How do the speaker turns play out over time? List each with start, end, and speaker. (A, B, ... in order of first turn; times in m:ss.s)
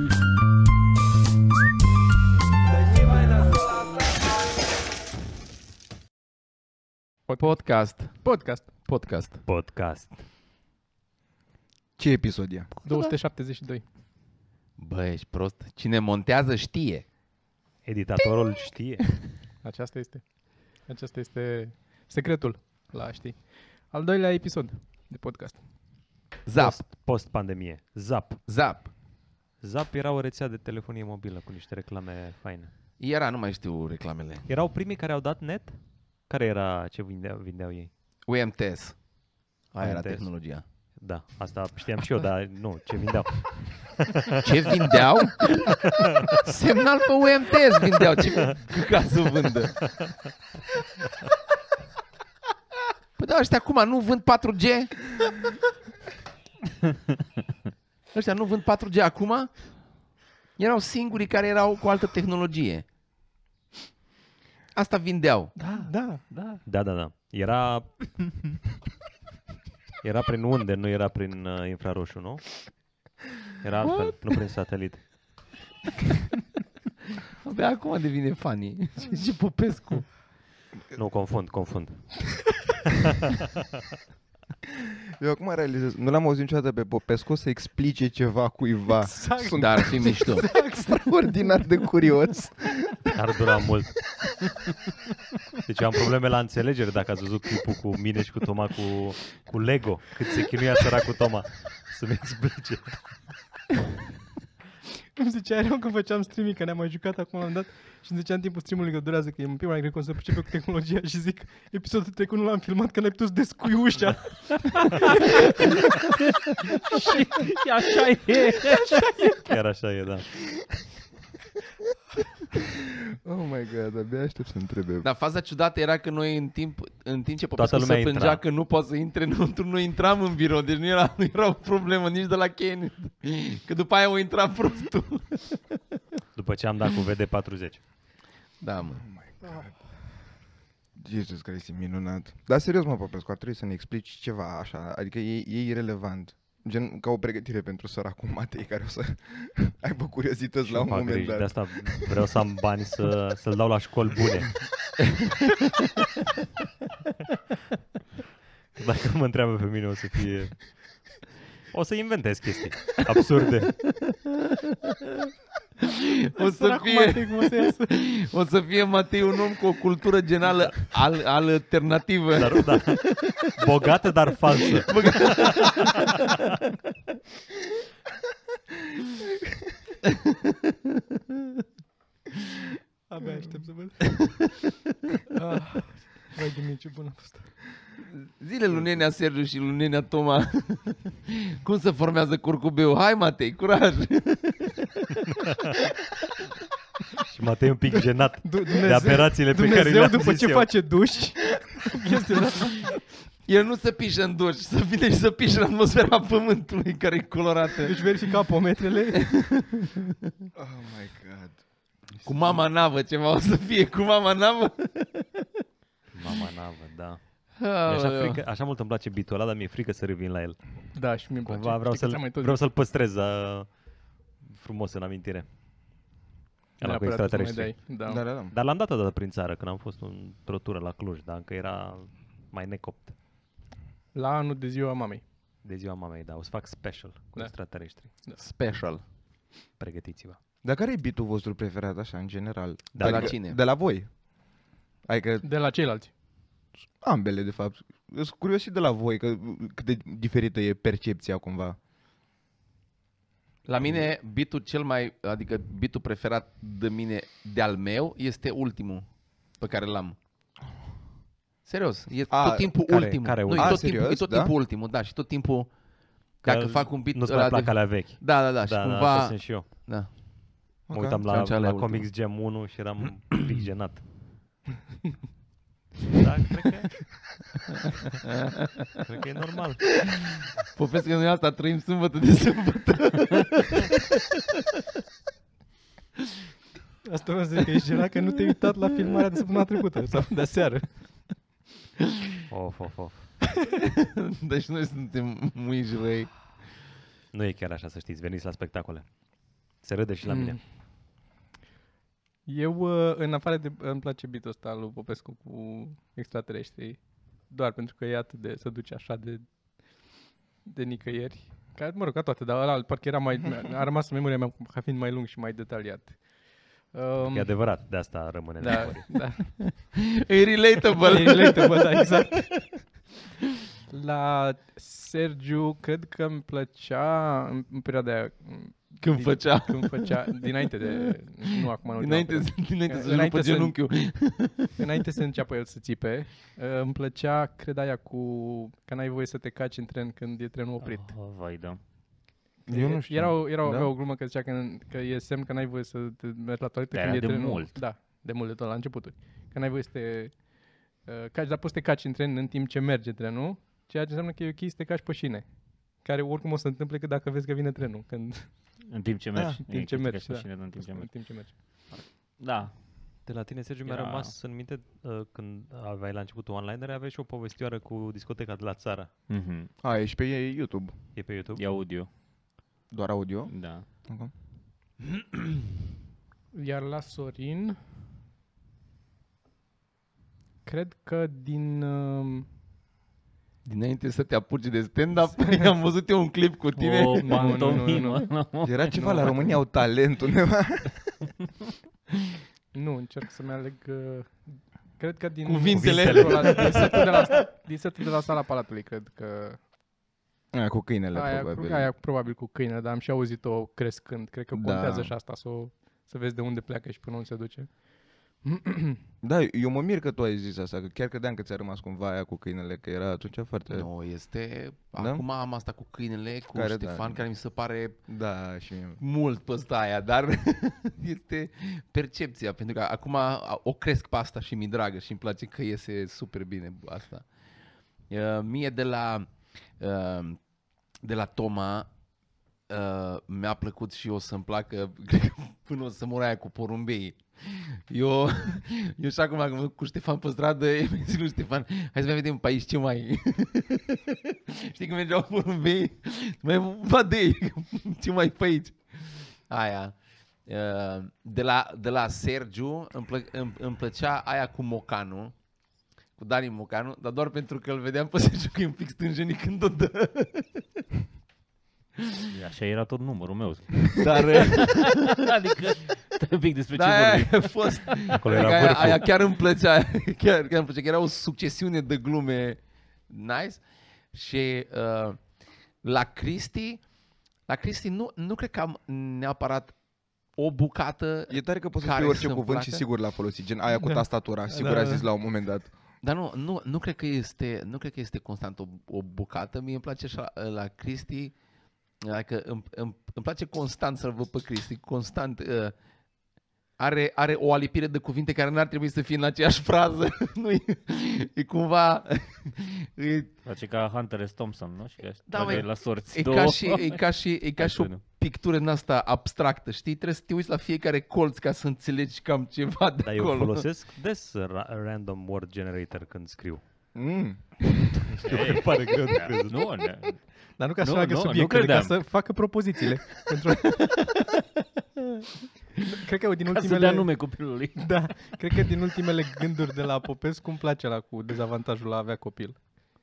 0:07.4-0:09.5 A
0:08.2-0:08.9 B
0:09.4-0:10.2 C
0:12.0-0:12.7 D
0:12.8-0:13.1 A
0:12.8-0:13.8 B
0:14.8-0:17.1 A
0:17.8-0:19.2 C
0:19.6-0:25.6 B
0:26.4-0:26.9 A
0:26.6-0:28.9 C
0:28.5-0:28.9 A
0:29.6-0:32.7 C
0:33.0-0:34.5 A
0:34.5-0:37.9 C
0:38.3-0:39.1 A
0:39.7-0:40.6 A
0:39.8-0:44.4 C
0:44.4-0:50.0 A
0:45.3-0:45.6 C
0:53.2-0:55.4 A
0:58.1-0:59.8 A
1:00.6-1:02.9 A
1:04.8-1:05.6 A
1:05.6-1:06.3 B
1:05.8-1:06.6 E
1:06.6-1:08.6 C
1:10.0-1:12.7 C
1:13.6-1:15.6 C
1:17.4-1:20.1 A
1:20.9-1:22.3 C
1:25.2-1:33.1 D
1:29.0-1:31.8 B
1:29.5-1:30.4 A
1:33.1-1:34.0 C
1:35.6-1:43.0 C
1:45.2-1:56.1 B
1:56.7-1:59.3 E
1:59.4-2:00.3 C
2:03.2-2:05.1 D
2:05.0-2:15.7 A
2:07.6-2:08.4 C
2:16.4-2:17.8 C
2:18.6-2:19.1 A
2:19.0-2:19.7 D
2:21.0-2:32.2 D
2:30.6-2:34.7 C
2:38.8-2:44.1 C
2:45.8-2:53.4 A
2:46.4-2:47.9 B
2:52.4-2:56.0 C
2:54.8-2:56.0 A
3:00.0-3:00.6 A
3:03.1-3:04.4 B
3:04.0-3:04.5 A
3:05.3-3:07.8 B
3:08.3-3:15.0 A
3:17.3-3:20.9 C
3:18.4-3:23.0 B
3:23.4-3:28.3 A
3:27.8-3:29.4 B
3:29.2-3:29.9 A
3:30.6-3:31.6 D
3:32.2-3:35.4 A
3:36.1-3:43.8 C
3:37.6-3:38.4 A
3:40.9-3:42.6 B
3:44.4-3:45.5 C
3:46.8-3:48.2 B
3:46.8-3:53.2 C
3:48.1-3:48.5 D
3:54.1-3:55.2 B
3:55.6-3:58.2 C
3:57.4-3:58.4 B
3:58.4-3:59.0 A
3:59.8-4:00.4 C
4:00.6-4:04.1 D
4:02.9-4:03.4 C
4:03.0-4:03.6 A
4:05.0-4:05.5 D
4:05.4-4:06.1 B
4:07.0-4:11.8 D
4:13.6-4:20.2 A
4:21.6-4:30.6 A
4:22.3-4:24.5 D
4:22.8-4:23.9 C
4:26.4-4:30.2 C
4:30.9-4:31.2 D
4:30.9-4:34.1 C
4:31.3-4:32.1 A
4:36.1-4:37.3 C
4:39.0-4:40.0 C
4:40.0-4:43.9 A
4:47.0-4:51.4 B
4:52.5-4:53.4 C
4:53.8-4:56.4 A
4:57.3-4:59.2 C
4:59.7-5:00.6 C
5:00.3-5:00.6 B
5:02.5-5:09.5 B
5:10.6-5:17.8 B
5:17.2-5:19.1 C
5:18.6-5:19.6 B
5:19.2-5:22.8 A
5:21.0-5:22.9 B
5:23.9-5:33.8 B
5:29.0-5:31.0 A
5:31.7-5:34.8 A
5:34.8-5:41.2 B
5:40.8-5:41.8 E
5:42.7-5:43.9 D
5:42.7-5:58.5 B
5:46.9-5:47.8 E
5:58.9-6:02.9 E
5:59.4-5:59.6 D
5:59.4-6:01.6 B
6:03.2-6:09.1 C
6:03.8-6:04.3 E
6:09.3-6:09.7 E
6:09.8-6:11.0 D
6:11.2-6:11.6 C
6:11.6-6:12.1 E
6:12.9-6:14.3 D
6:13.5-6:13.9 E
6:16.5-6:17.8 B
6:20.6-6:22.5 B
6:23.6-6:27.6 A
6:25.4-6:25.7 B
6:26.8-6:29.5 E
6:27.2-6:28.3 B
6:28.6-6:31.2 D
6:32.7-6:39.7 B
6:35.4-6:37.5 A
6:35.7-6:37.0 C
6:40.5-6:41.9 D
6:41.1-6:49.0 B
6:44.5-6:45.2 D
6:49.2-6:53.9 D
6:53.7-6:58.0 A
6:55.0-6:55.2 D
6:56.5-6:57.2 D
6:58.1-6:59.0 D
6:59.0-7:07.3 A
7:08.1-7:10.4 A
7:11.0-7:11.9 A
7:12.7-7:35.4 A
7:36.2-7:40.7 A
7:42.3-7:48.1 E
7:44.0-7:45.1 A
7:46.8-7:56.9 A
7:48.1-7:49.2 C
7:57.4-8:02.8 A
8:01.3-8:05.7 D
8:03.8-8:05.1 B
8:06.0-8:11.4 A
8:12.0-8:15.8 A
8:16.8-8:23.3 A
8:23.4-8:28.0 E
8:25.3-8:33.7 A
8:33.0-8:37.1 C
8:37.0-8:37.9 D
8:38.1-8:39.9 C
8:38.2-8:42.3 E
8:40.6-8:44.3 B
8:45.8-8:52.6 B
8:46.5-8:48.4 E